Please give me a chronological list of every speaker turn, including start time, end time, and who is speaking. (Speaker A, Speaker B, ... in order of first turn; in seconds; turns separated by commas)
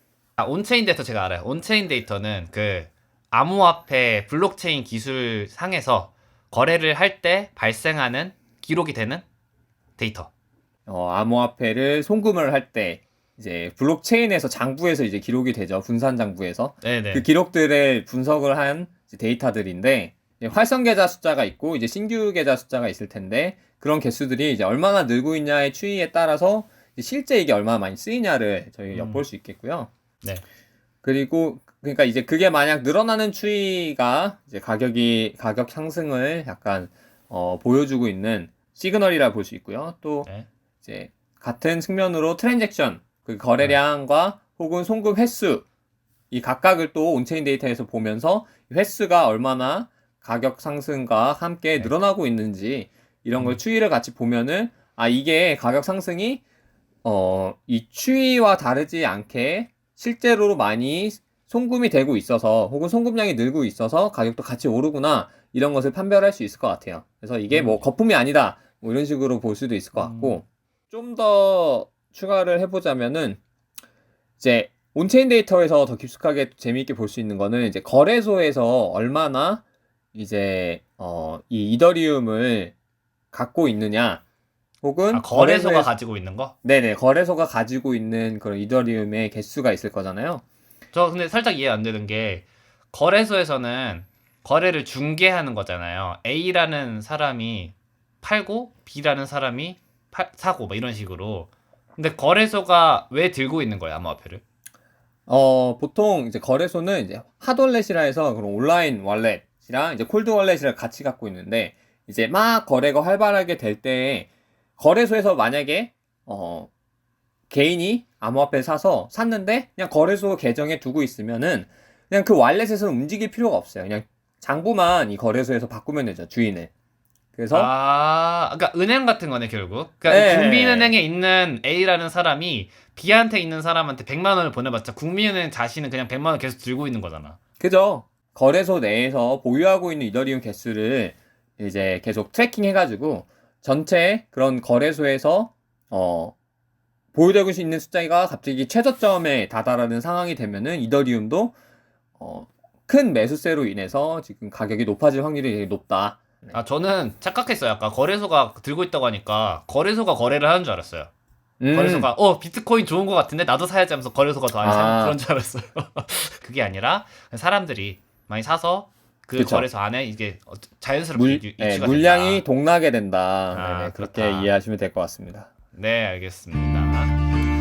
Speaker A: 0.4-9.2, Speaker A: 10.0-10.3, Speaker B: 10.9-29.9, Speaker A: 16.8-17.2, Speaker A: 28.9-29.2, Speaker B: 31.0-40.3, Speaker B: 40.8-45.6, Speaker B: 46.3-56.4, Speaker B: 57.0-73.4, Speaker A: 67.5-67.8, Speaker A: 70.0-70.4, Speaker B: 74.4-79.6, Speaker B: 80.1-82.7, Speaker B: 83.3-84.2, Speaker B: 84.8-85.9, Speaker A: 85.1-86.5, Speaker B: 86.6-90.4, Speaker A: 90.9-104.4, Speaker B: 105.3-116.7, Speaker B: 117.5-126.7, Speaker B: 127.3-127.7, Speaker A: 127.5-137.4, Speaker B: 130.1-130.9, Speaker B: 137.6-146.3, Speaker B: 147.1-151.6, Speaker B: 152.2-156.6, Speaker A: 156.5-161.1, Speaker B: 161.6-162.1, Speaker A: 161.7-172.4, Speaker B: 164.6-165.2, Speaker B: 169.4-169.7, Speaker B: 171.2-175.5, Speaker A: 173.5-174.5, Speaker A: 175.7-177.2